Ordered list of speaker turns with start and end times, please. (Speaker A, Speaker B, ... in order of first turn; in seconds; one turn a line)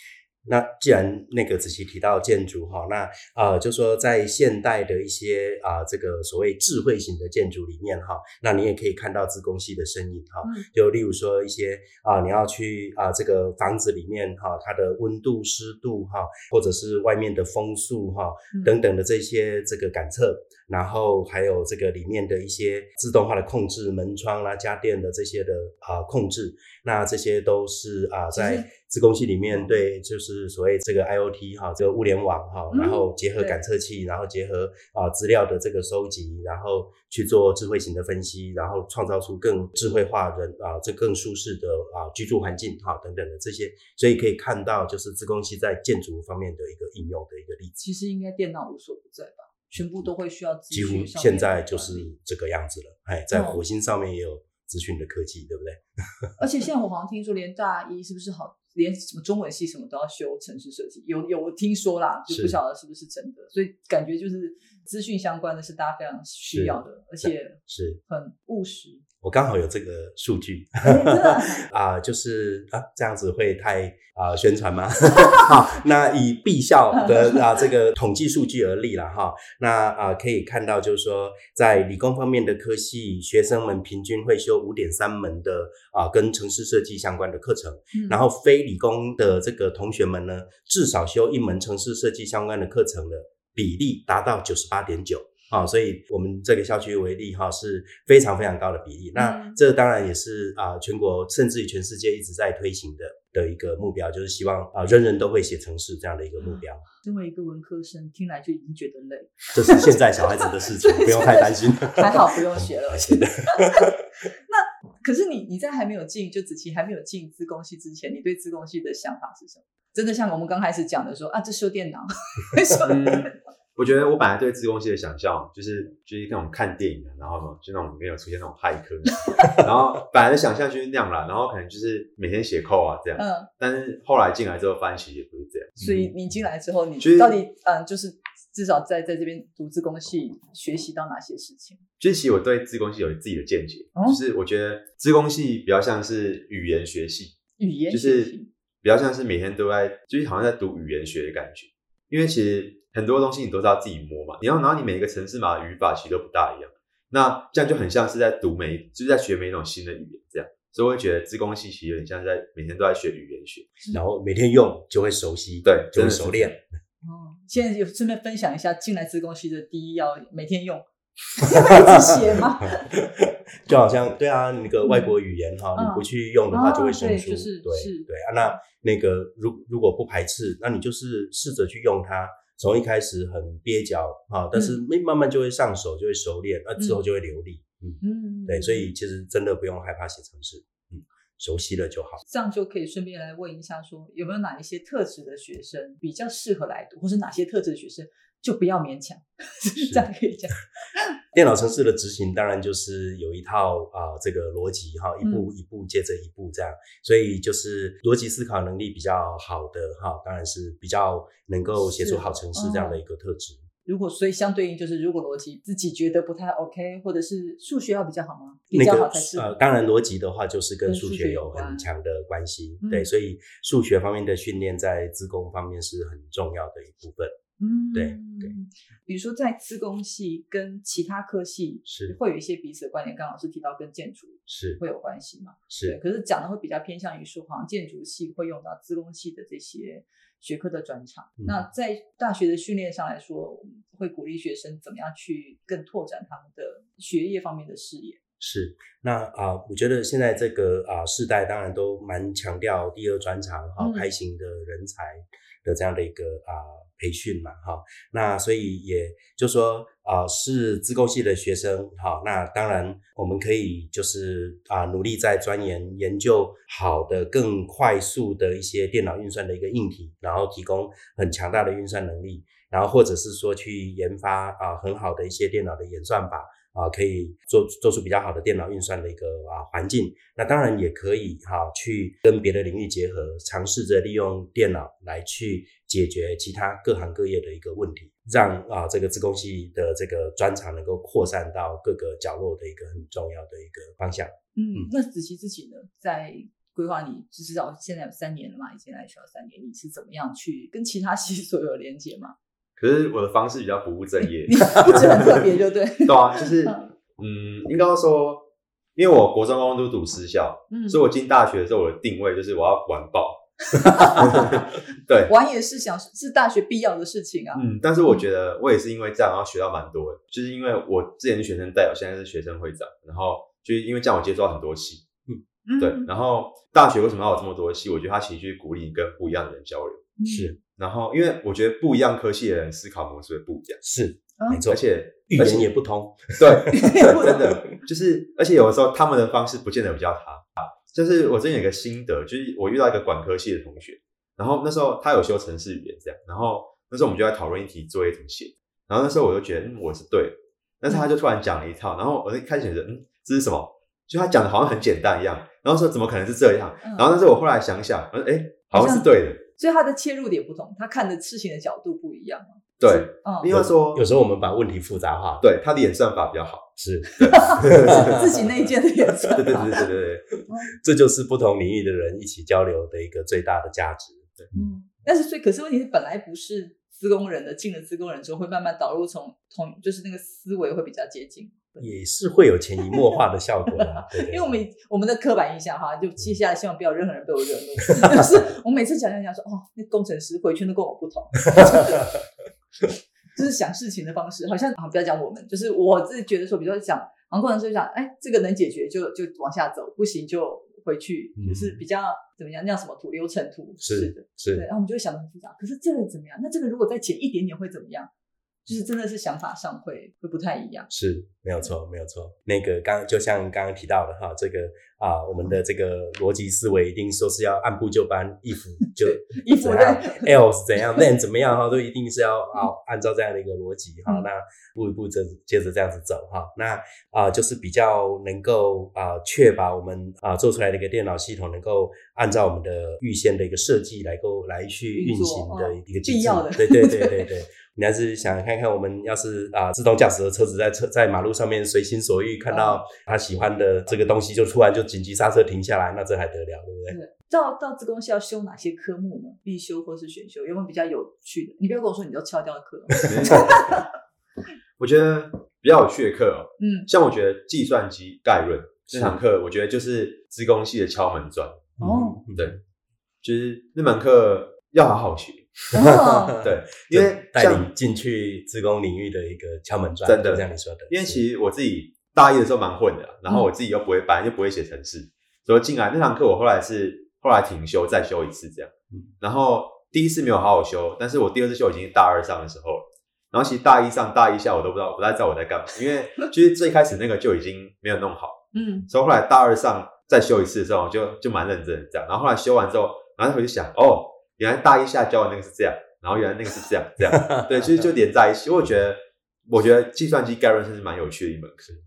Speaker A: 0.5-47.8
Speaker B: 18.5-18.8
Speaker B: 28.3-28.7
Speaker B: 29.5-29.8
Speaker B: 32.7-33.6
Speaker B: 47.8-52.1
Speaker A: 49.7-50.1
Speaker A: 50.7-56.3
Speaker B: 53.3-53.6
Speaker B: 56.4-69.0
Speaker A: 62.3-62.6
Speaker A: 66.5-68.0
Speaker A: 69.2-106.8
Speaker B: 70.8-71.6
Speaker B: 76.9-77.4
Speaker B: 87.9-88.2
Speaker B: 99.1-99.6
Speaker B: 106.4-113.9
Speaker A: 109.5-114.0
Speaker B: 114.5-123.3
Speaker C: 122.8-135.8
Speaker B: 129.3-129.6
Speaker B: 133.2-133.5
Speaker B: 135.8-141.8
Speaker A: 135.8-136.1
Speaker C: 137.0-137.4
Speaker C: 142.0-147.4
Speaker B: 143.9-144.2
Speaker B: 147.6-148.5
Speaker C: 147.9-163.7
Speaker A: 163.9-166.6
Speaker C: 165.6-166.6
Speaker B: 167.0-170.8
Speaker B: 171.3-172.9
Speaker A: 171.5-192.2
Speaker B: 174.8-175.1
Speaker B: 175.7-178.5
Speaker B: 188.0-188.9
Speaker B: 192.2-201.1
Speaker A: 199.8-200.0
Speaker A: 201.3-213.6
Speaker B: 205.2-205.5
Speaker B: 211.8-213.0
Speaker B: 213.8-219.5
Speaker A: 218.7-227.3
Speaker B: 220.8-221.9
Speaker B: 222.8-223.1
Speaker B: 227.6-248.2
Speaker A: 227.9-228.5
Speaker A: 231.9-232.1
Speaker A: 234.5-234.8
Speaker A: 235.7-236.0
Speaker A: 241.4-241.6
Speaker A: 248.4-294.9
Speaker B: 253.8-254.1
Speaker B: 294.6-302.3
Speaker C: 302.8-305.5
Speaker B: 304.4-306.9
Speaker C: 306.0-315.3
Speaker B: 310.7-311.0
Speaker B: 313.7-314.7
Speaker B: 315.3-318.1
Speaker C: 317.5-325.1
Speaker B: 325.6-326.1
Speaker C: 325.8-330.1
Speaker B: 330.2-330.5
Speaker A: 330.3-330.6
Speaker C: 330.8-333.8
Speaker A: 333.8-337.4
Speaker B: 334.4-334.6
Speaker C: 334.7-335.7
Speaker C: 336.4-359.4
Speaker B: 336.7-337.4
Speaker B: 356.8-357.1
Speaker B: 358.7-363.5
Speaker C: 362.8-364.0
Speaker A: 363.5-365.4
Speaker C: 365.4-368.2
Speaker A: 366.8-368.7
Speaker B: 367.2-369.9
Speaker C: 369.4-370.2
Speaker B: 370.5-370.7
Speaker A: 370.7-374.6
Speaker B: 374.5-381.9
Speaker A: 381.8-384.6
Speaker B: 383.7-392.1
Speaker A: 388.0-388.3
Speaker A: 391.5-392.1
Speaker B: 393.3-408.1
Speaker A: 401.4-401.8
Speaker A: 403.8-404.6
Speaker B: 408.6-410.9
Speaker A: 410.9-447.0
Speaker B: 418.8-421.0
Speaker B: 434.9-437.3
Speaker B: 442.5-442.8
Speaker B: 446.9-453.9
Speaker C: 453.0-453.8
Speaker C: 454.8-461.8
Speaker B: 456.6-456.9
Speaker A: 458.9-459.2
Speaker A: 461.8-462.6
Speaker B: 461.8-462.2
Speaker C: 463.2-467.7
Speaker B: 465.7-466.4
Speaker A: 465.8-471.2
Speaker C: 470.1-501.7
Speaker B: 488.5-488.9
Speaker A: 497.1-497.8